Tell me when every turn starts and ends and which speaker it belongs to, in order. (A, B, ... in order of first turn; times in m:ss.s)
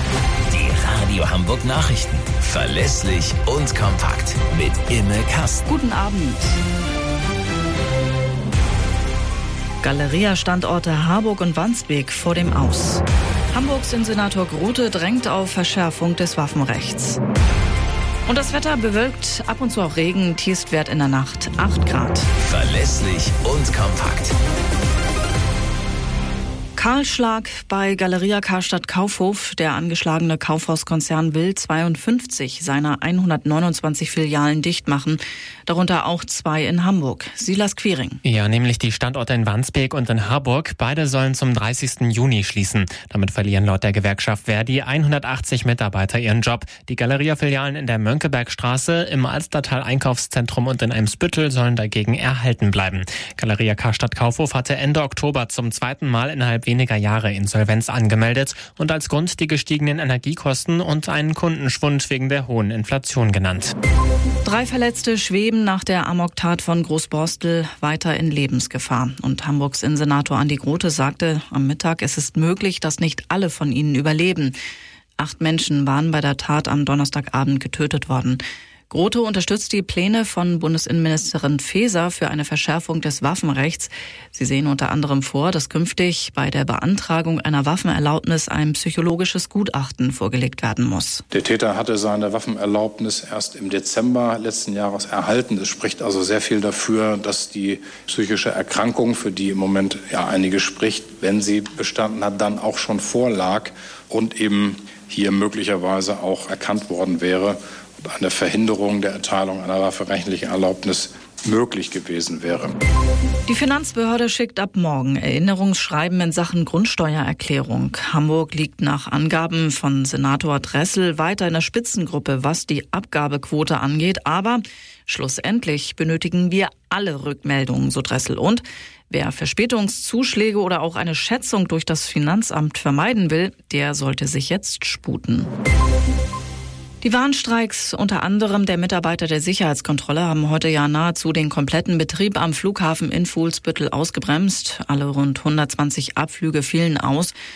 0:00.5-0:05.6 A
0:05.7-0:06.5 B
0:09.8-0:17.2 B
0:18.2-0:22.3 B
0:22.4-0:24.3 A
0:26.8-0:38.2 B
0:38.2-1:03.7 C
1:04.4-1:14.6 B
1:15.2-1:31.2 B
1:31.3-1:52.7 D
1:53.4-2:15.5 B
2:17.0-2:27.3 B